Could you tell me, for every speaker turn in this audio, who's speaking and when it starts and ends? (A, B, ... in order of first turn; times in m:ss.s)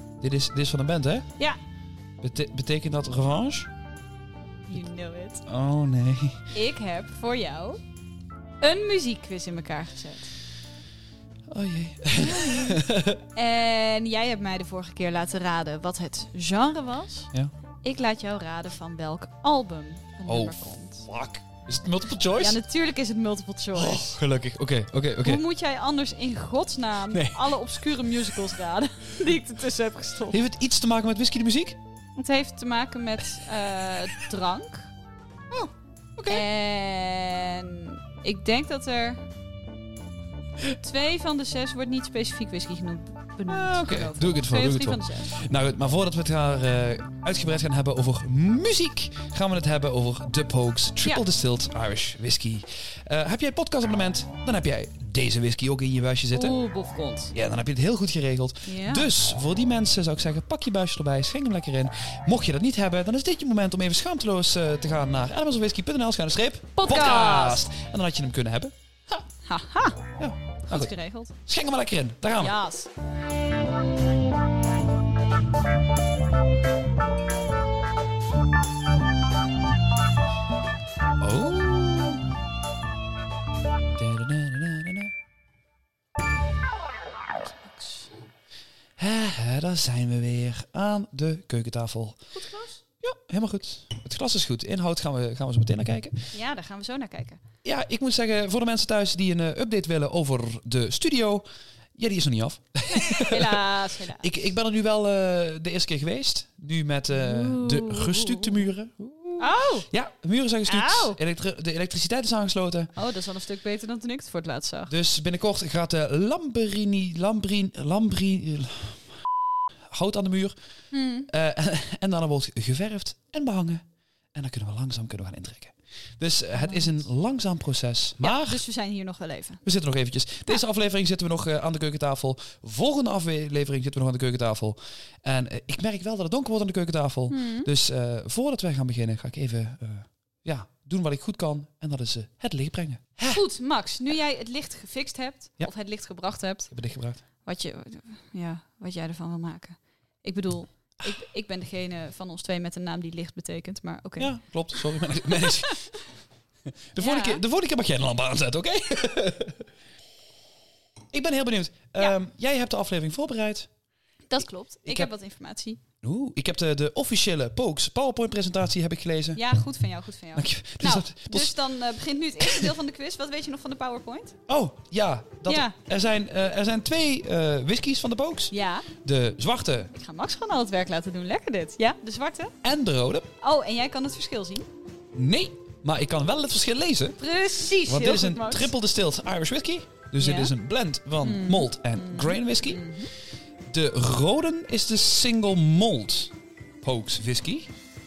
0:00.2-0:01.3 A
0:02.2-0:03.7 A
0:04.7-0:05.4 B
0:05.5-0:06.5 A
0:06.5-0:07.8 B
0:08.6-0:10.3 B
0:11.5-0:13.2 A
0:12.2-0:12.8 B
0:13.4-0:17.3 B
0:17.8-0:21.1 B
0:20.2-0:22.6 A
0:22.4-0:24.2 B
0:23.7-0:25.4 A
0:25.2-0:30.4 B
0:27.1-0:28.0 A
0:30.3-0:31.8 A
0:32.2-0:34.9 B
0:35.5-0:36.4 A
0:36.3-0:39.2 B
0:40.8-0:45.3 B
0:43.5-0:56.6 A
0:56.3-0:57.3 B
0:57.3-1:08.8 A
0:58.6-0:59.1 B
1:06.8-1:07.6 B
1:09.4-1:10.0 B
1:10.2-1:12.6 A
1:10.7-1:11.4 B
1:12.4-1:12.9 B
1:21.2-1:22.2 A
1:24.0-1:25.1 A
1:27.4-1:28.1 B
1:29.0-1:32.2 A
1:32.3-1:32.8 B
1:33.0-1:36.4 A
1:36.3-1:37.4 B
1:37.6-1:43.5 A
1:42.9-1:44.3 B
1:44.2-1:52.9 A
1:47.1-1:48.7 B
1:49.4-1:49.9 B
1:50.7-1:51.2 B
1:53.0-1:54.9 B
1:54.9-1:59.3 A
1:59.9-2:00.6 A
2:00.9-2:01.3 B
2:01.3-2:08.6 A
2:06.5-2:07.0 B
2:08.2-2:09.6 B
2:09.6-2:23.4 A
2:17.3-2:17.7 B
2:23.3-2:26.7 B
2:26.7-2:27.2 A
2:27.4-2:34.4 B
2:34.2-2:36.0 A
2:35.4-2:35.7 B
2:36.9-2:39.6 A
2:37.0-2:37.4 B
2:41.1-2:43.7 A
2:44.3-2:45.8 B
2:44.8-2:45.1 A
2:46.0-2:49.4 A
2:49.4-2:54.4 B
2:50.4-2:51.6 A
2:52.4-2:52.7 A
2:54.5-2:59.9 A
2:55.5-2:55.8 B
2:58.5-2:58.9 B
2:59.9-3:02.6 B
3:02.6-3:03.3 A
3:03.4-3:04.7 B
3:05.1-3:07.2 A
3:07.2-3:08.7 B
3:07.9-3:12.9 A
3:10.2-3:10.5 B
3:11.2-3:13.1 B
3:13.7-3:17.7 A